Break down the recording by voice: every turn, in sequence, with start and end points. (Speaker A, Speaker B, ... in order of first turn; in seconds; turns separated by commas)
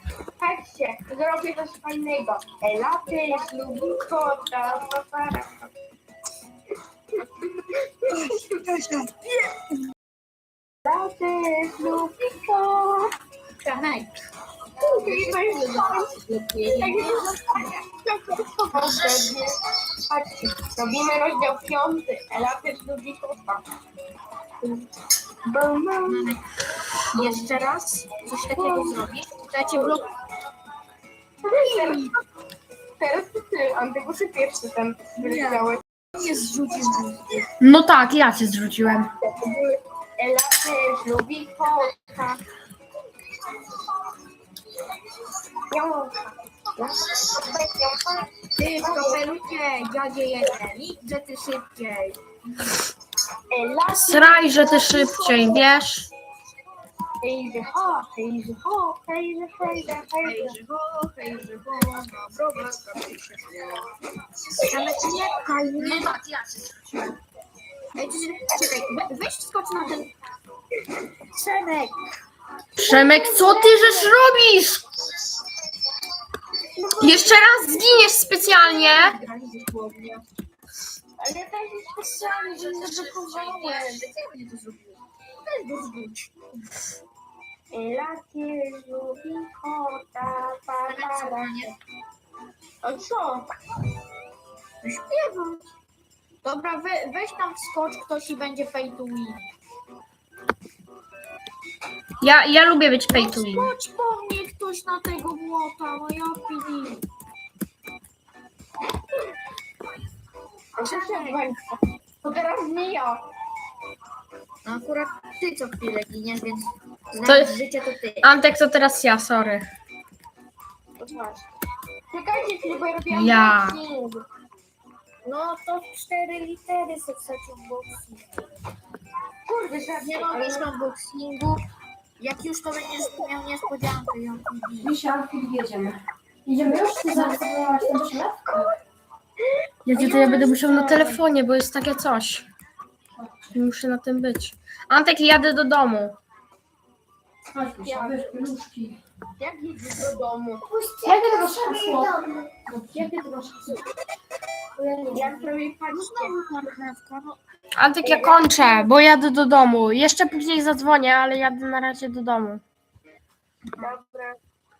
Speaker A: 0.4-5.7, Speaker A: 7.2-8.6, Speaker B: 8.1-9.7, Speaker A: 10.8-13.1, Speaker B: 13.6-14.1, Speaker A: 14.8-16.1, Speaker B: 14.8-17.8, Speaker A: 16.8-19.6, Speaker A: 20.1-23.6, Speaker A: 25.5-26.3, Speaker B: 26.0-26.4, Speaker B: 27.1-30.1, Speaker A: 28.5-29.0, Speaker A: 31.4-32.1, Speaker B: 31.5-32.2, Speaker A: 33.0-35.8, Speaker B: 35.2-37.5, Speaker C: 37.6-39.1, Speaker A: 39.2-42.4, Speaker A: 45.7-49.3, Speaker B: 48.6-52.7, Speaker A: 53.5-55.6, Speaker C: 53.9-56.1, Speaker A: 57.2-60.6, Speaker B: 60.2-63.8, Speaker B: 64.6-66.2, Speaker B: 67.9-70.1, Speaker B: 71.3-72.0, Speaker C: 72.8-74.8, Speaker A: 72.8-74.1, Speaker A: 76.8-77.6, Speaker C: 77.0-79.2, Speaker B: 78.5-80.2, Speaker A: 81.2-84.0, Speaker B: 82.1-86.3, Speaker A: 87.7-91.7, Speaker B: 90.9-91.7, Speaker A: 92.8-93.5, Speaker B: 94.8-95.7, Speaker B: 96.4-99.5, Speaker C: 102.2-103.7, Speaker B: 103.1-107.0, Speaker A: 110.8-113.2, Speaker B: 110.8-111.5, Speaker B: 114.7-118.3, Speaker C: 117.2-117.6, Speaker C: 118.2-119.7, Speaker A: 121.0-121.5, Speaker A: 122.1-124.3, Speaker C: 123.1-123.8, Speaker B: 125.2-128.6, Speaker A: 129.5-130.7, Speaker B: 130.0-131.6, Speaker B: 132.2-134.9, Speaker C: 134.8-138.7, Speaker C: 139.9-142.5, Speaker A: 139.9-141.2, Speaker C: 143.2-146.2, Speaker C: 147.5-149.0, Speaker A: 147.8-148.4, Speaker A: 149.4-150.7, Speaker B: 150.8-152.1, Speaker C: 151.0-153.8, Speaker A: 155.1-156.3, Speaker B: 155.3-157.4, Speaker C: 157.8-162.6, Speaker A: 158.0-158.9, Speaker A: 163.8-164.4